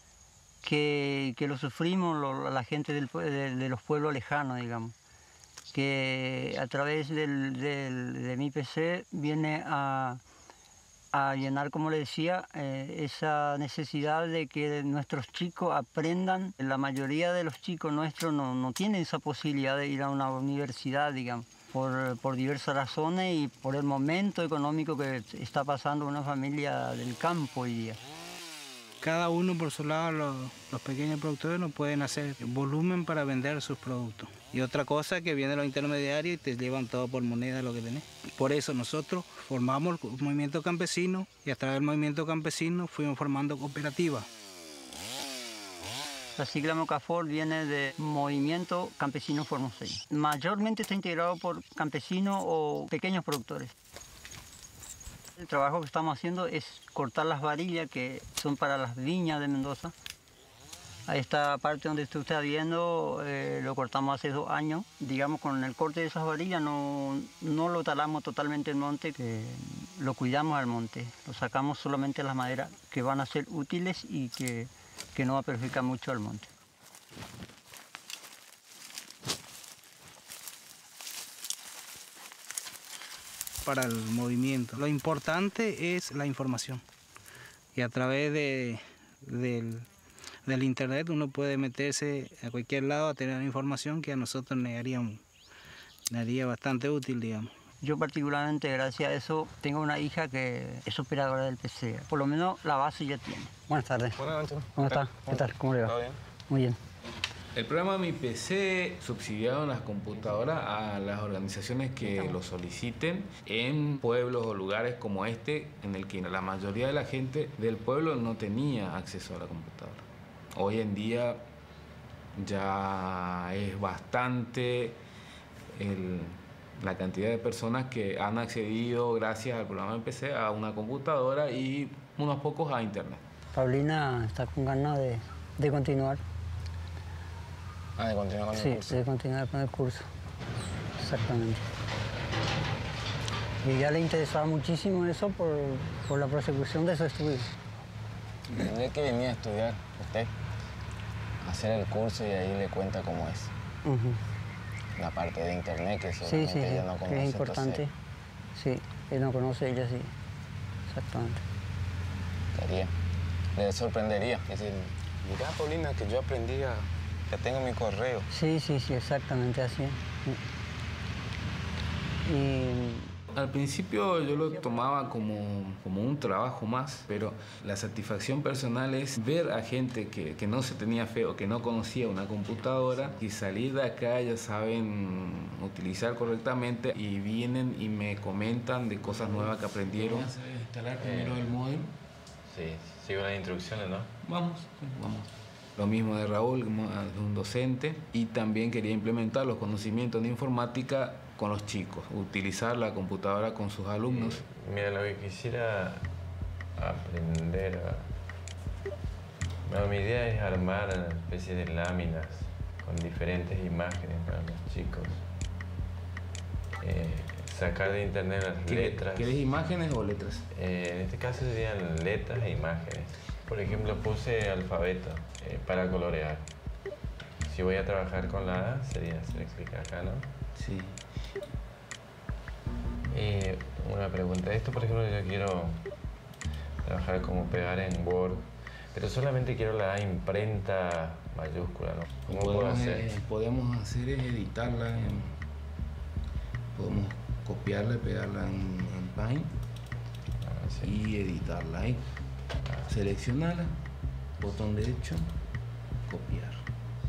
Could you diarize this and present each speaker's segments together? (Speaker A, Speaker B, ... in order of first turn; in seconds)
Speaker A: 0.6-4.9, 5.7-10.2, 11.1-28.0, 46.4-53.7, 55.4-59.9, 61.1-76.5, 97.8-104.2, 104.8-106.0, 106.5-106.8, 112.0-112.4, 133.5-136.2, 138.5-140.1, 141.0-141.6, 143.6-147.5, 153.8-154.2, 156.2-157.9, 158.5-160.1, 160.9-161.4, 168.3-170.4, 172.2-173.1
Speaker B: 29.0-44.3, 83.6-86.8, 87.7-89.9, 90.5-95.2, 96.1-97.5
Speaker C: 104.2-106.2, 138.0-139.0, 148.5-150.3, 151.4-153.5, 154.9-157.8, 162.5-162.9, 163.5-168.2
Speaker D: 107.5-121.4, 122.4-125.0, 125.7-133.2, 173.3-191.9, 194.2-204.4, 218.7-220.4, 230.6-231.0, 242.3-245.3, 246.7-249.5, 250.8-252.0, 252.9-253.7, 254.4-255.3, 256.1-256.6
Speaker E: 191.0-191.4, 192.5-194.1, 204.1-206.0, 206.8-208.1, 209.6-215.2, 216.8-219.4, 220.5-226.4, 227.4-230.2, 233.1-235.8, 236.8-243.1, 250.4-250.9